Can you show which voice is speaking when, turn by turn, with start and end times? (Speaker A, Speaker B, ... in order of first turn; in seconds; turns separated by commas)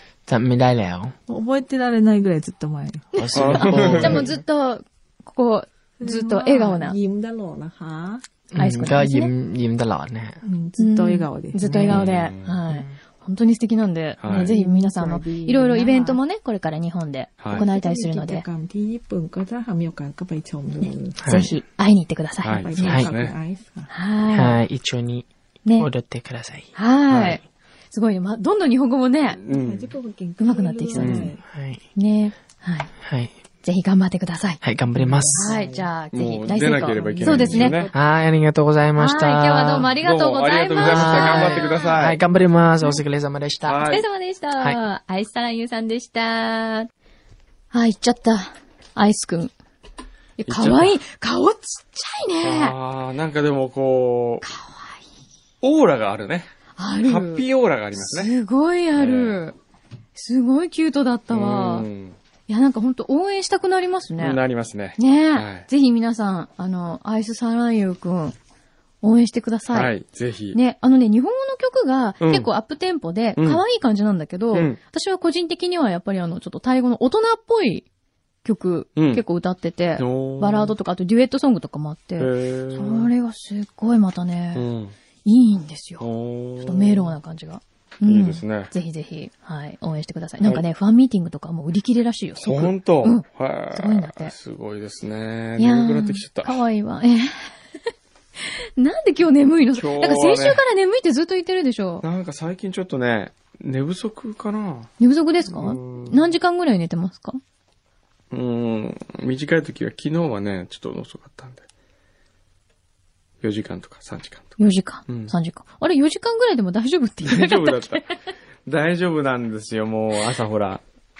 Speaker A: 0.3-1.1, Speaker B: 1.3-3.1, Speaker C: 3.1-7.0, Speaker A: 3.2-4.4, Speaker D: 3.3-4.2, Speaker B: 6.0-8.2, Speaker A: 8.5-10.4, Speaker C: 8.6-9.3, Speaker B: 10.4-11.9, Speaker C: 10.8-18.4, Speaker A: 11.6-12.0, Speaker D: 11.9-12.6, Speaker A: 12.7-13.0, Speaker D: 14.2-14.5, Speaker B: 14.3-16.2, Speaker D: 17.4-17.7, Speaker B: 17.5-21.5, Speaker C: 20.8-22.7, Speaker A: 21.2-21.5, Speaker D: 22.4-23.3, Speaker B: 22.5-23.9, Speaker A: 22.8-23.1, Speaker C: 23.9-24.6, Speaker A: 24.3-26.7, Speaker C: 25.6-25.9, Speaker C: 26.7-29.4, Speaker D: 27.1-27.4, Speaker D: 29.4-29.9, Speaker B: 29.4-31.4, Speaker C: 30.4-31.3, Speaker D: 30.9-31.3, Speaker A: 31.1-31.8, Speaker C: 31.9-32.9, Speaker A: 33.0-33.3, Speaker C: 33.6-34.6, Speaker A: 34.6-35.5, Speaker B: 34.9-35.9, Speaker C: 35.3-37.8, Speaker D: 36.1-37.9, Speaker B: 36.8-38.0, Speaker A: 37.9-39.9, Speaker C: 39.0-42.0, Speaker D: 39.9-42.2, Speaker A: 40.8-43.9, Speaker D: 43.6-44.0, Speaker C: 43.8-46.9, Speaker C: 47.7-49.5, Speaker C: 50.4-52.8, Speaker D: 50.4-51.0, Speaker D: 52.4-54.4, Speaker C: 54.4-55.0, Speaker D: 55.6-56.5, Speaker C: 56.8-57.4, Speaker D: 57.0-58.4, Speaker C: 58.0-59.5, Speaker D: 59.0-59.4, Speaker C: 60.1-61.9, Speaker D: 61.3-62.1, Speaker C: 62.5-64.4, Speaker D: 64.2-65.7, Speaker C: 65.0-68.3, Speaker C: 69.0-69.9, Speaker D: 69.7-70.6, Speaker C: 70.5-77.8, Speaker D: 72.2-72.5, Speaker D: 73.4-73.6, Speaker D: 74.5-74.8, Speaker C: 78.4-84.6, Speaker D: 79.0-79.2, Speaker D: 80.0-80.7, Speaker D: 82.2-83.1, Speaker D: 84.5-84.9, Speaker C: 85.2-86.0, Speaker D: 86.0-87.2, Speaker C: 86.6-94.3, Speaker D: 88.0-88.7, Speaker D: 92.4-96.6, Speaker C: 95.6-97.5, Speaker C: 98.4-102.0, Speaker D: 99.7-100.6, Speaker D: 102.0-104.9, Speaker C: 105.0-107.4, Speaker D: 105.4-106.3, Speaker D: 108.3-111.6, Speaker D: 113.4-115.3, Speaker C: 114.6-118.0, Speaker D: 117.2-118.0, Speaker D: 118.7-120.8